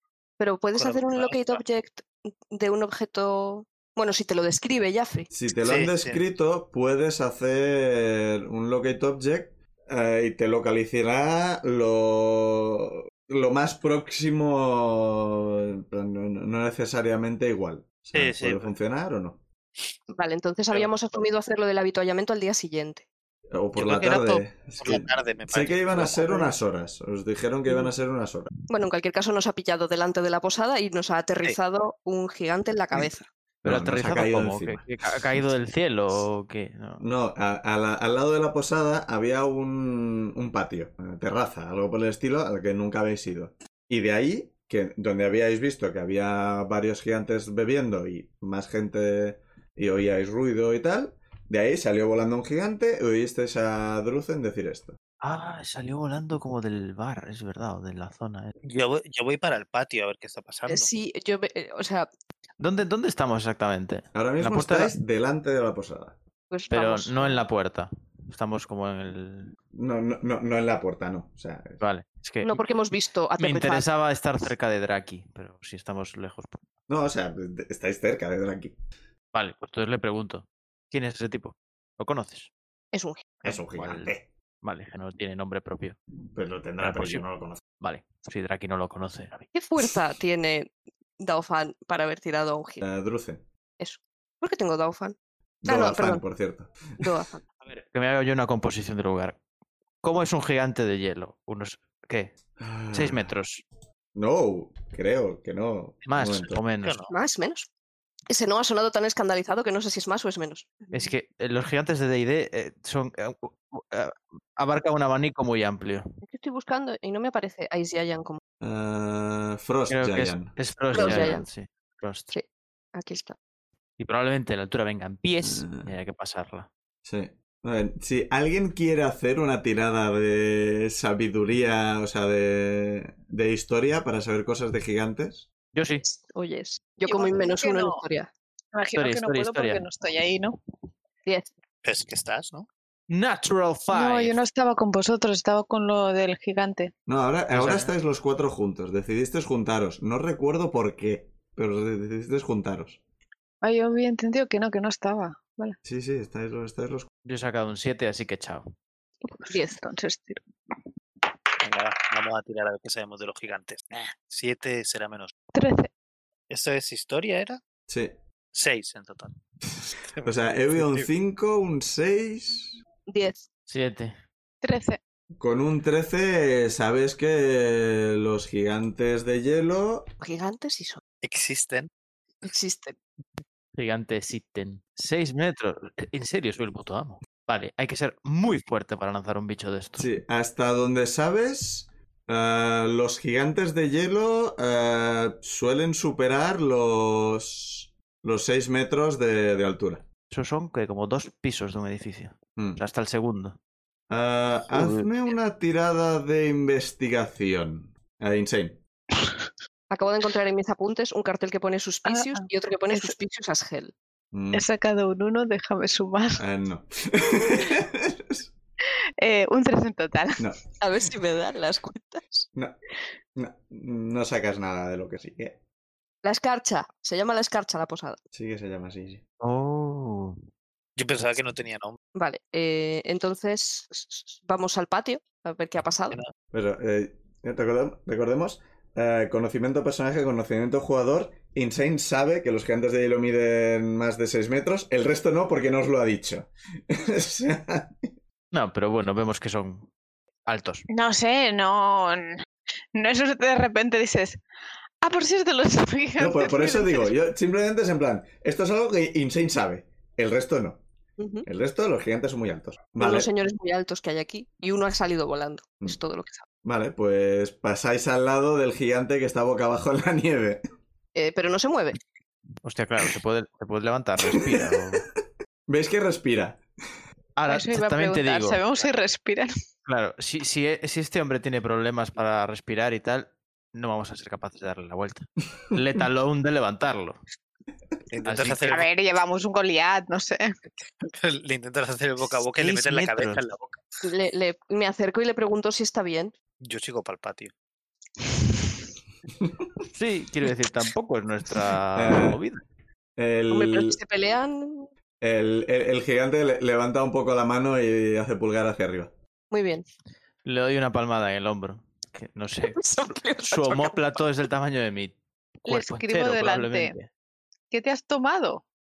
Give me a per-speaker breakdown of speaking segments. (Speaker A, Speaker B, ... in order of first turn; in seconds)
Speaker A: 0.4-5.3, 20.1-23.1, 28.7-33.2, 60.7-62.1, 66.5-67.4, 72.4-73.9, 82.9-83.3, 89.5-90.7, 91.2-92.8, 93.8-95.2, 95.7-96.2, 97.0-97.4, 107.1-107.7, 108.3-111.1, 116.2-118.4, 120.9-121.5, 122.3-123.4, 136.0-138.3, 159.5-159.8, 173.1-173.4, 180.2-181.0, 182.4-183.0, 209.9-213.9, 220.8-222.5, 226.2-228.2, 232.2-236.2, 261.2-261.5, 263.0-266.4, 271.1-272.0, 294.0-296.3, 303.5-304.9, 309.5-309.9, 312.7-314.2
Speaker B: 0.8-1.6, 5.6-6.2, 18.1-18.7, 23.8-26.5, 58.6-60.9, 106.8-107.1, 141.8-142.7, 161.6-165.3, 166.5-167.6, 168.5-171.1, 181.2-181.9, 231.0-232.0, 288.1-288.9, 291.0-293.8, 296.6-297.5
Speaker C: 5.3-19.4, 23.5-28.5, 33.6-35.5, 37.0-55.0, 64.2-66.2, 69.7-71.8, 76.9-78.8, 83.4-84.2, 86.3-87.6, 92.8-93.4, 95.6-97.0, 102.6-103.3, 104.2-106.6, 118.6-121.4, 125.4-125.9, 127.0-135.5, 147.1-153.0, 155.8-157.1, 167.9-168.1, 170.2-172.8, 175.4-180.1, 190.0-200.1, 204.1-208.8, 214.3-214.7, 216.4-218.5, 223.3-225.6, 228.3-229.2, 236.5-248.1, 256.2-260.8, 261.4-263.3, 266.6-270.6, 274.2-275.0, 275.7-276.6, 301.9-302.4, 303.2-304.0, 305.2-309.1
Speaker D: 33.6-37.0, 55.2-58.5, 62.6-65.0, 66.7-69.5, 71.8-72.6, 73.4-76.6, 79.3-82.5, 83.5-86.0, 86.8-87.2, 87.8-89.5, 97.7-99.4, 100.0-102.3, 102.9-103.6, 106.1-107.0, 110.9-116.1, 119.9-122.3, 124.0-126.7, 135.7-136.0, 139.0-139.8, 143.1-144.4, 147.5-147.9, 157.2-158.7, 173.7-174.1, 183.8-190.1, 200.3-203.6, 204.7-205.1, 229.4-230.4, 248.5-249.9, 250.5-250.8, 272.6-275.1, 277.4-278.6, 279.9-287.2, 288.2-288.8, 292.6-293.4, 299.9-302.6, 310.4-317.1
Speaker E: 137.1-138.0, 138.7-140.6, 143.9-146.9, 153.6-155.8, 159.3-160.4, 165.5-165.9, 174.6-175.0, 212.1-213.1, 214.5-216.4, 219.2-220.4, 250.9-252.4, 252.9-254.4, 255.0-257.1, 277.5-279.5, 288.7-290.5, 315.7-316.9, 317.7-318.6